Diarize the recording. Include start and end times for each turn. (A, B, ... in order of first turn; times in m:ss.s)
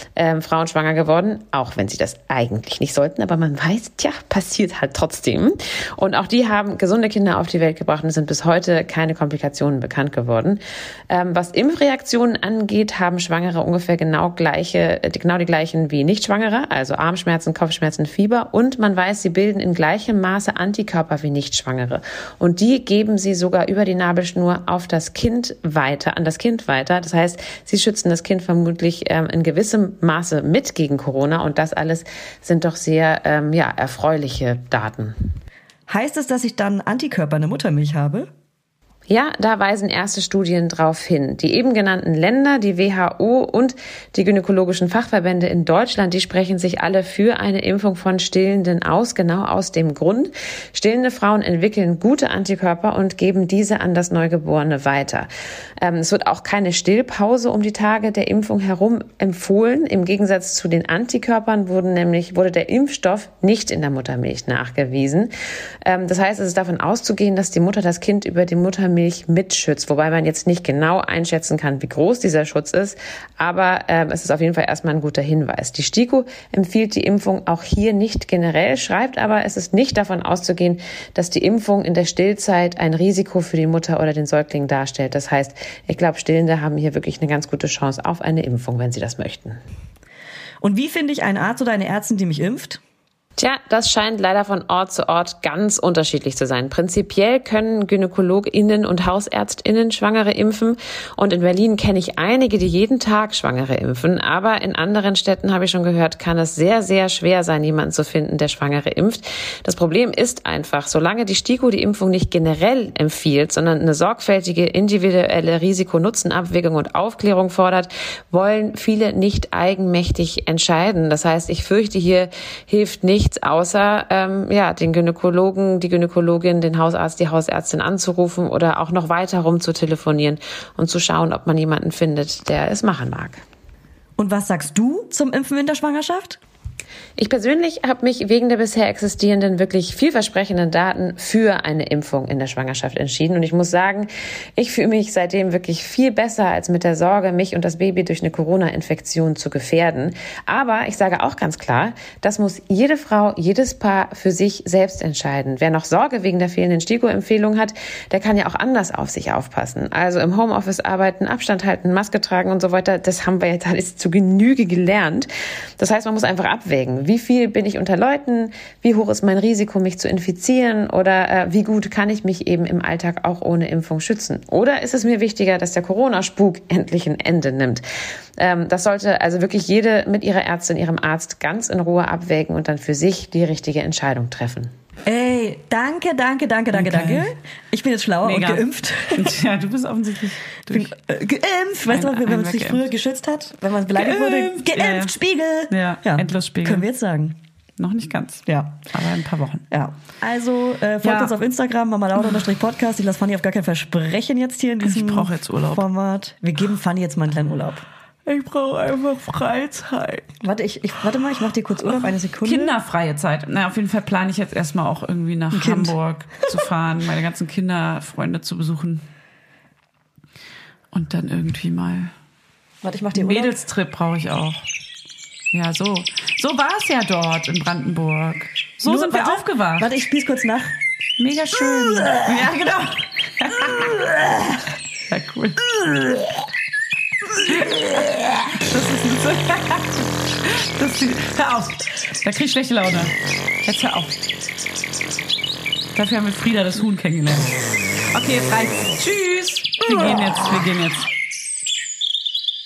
0:00.2-0:35.1 A
0:35.9-0:38.3 B
0:39.1-0:55.3 A
0:55.8-1:05.3 A
1:05.8-1:29.6 A
1:30.6-1:32.8 B
1:33.4-2:13.4 A
2:14.2-2:16.4 B
2:17.2-2:57.8 A
2:58.4-3:04.7 A
3:05.0-3:09.4 B
3:06.7-3:07.3 C
3:08.2-3:10.9 C
3:10.7-3:17.4 B
3:11.9-3:12.9 C
3:13.9-3:15.1 C
3:15.7-3:16.9 C
3:17.8-3:19.7 C
3:18.4-3:18.8 B
3:19.7-3:27.8 B
3:21.0-3:21.4 C
3:24.8-3:25.8 C
3:28.2-3:30.3 C
3:30.4-3:32.7 B
3:31.9-3:39.0 C
3:35.5-3:36.0 B
3:40.9-3:42.1 C
3:42.8-3:43.5 B
3:43.1-3:44.6 C
3:45.5-3:49.9 C
3:48.8-3:50.8 B
3:51.2-3:53.9 C
3:52.0-3:52.4 B
3:55.1-3:55.7 C
3:57.4-4:04.2 C
4:05.9-4:11.1 C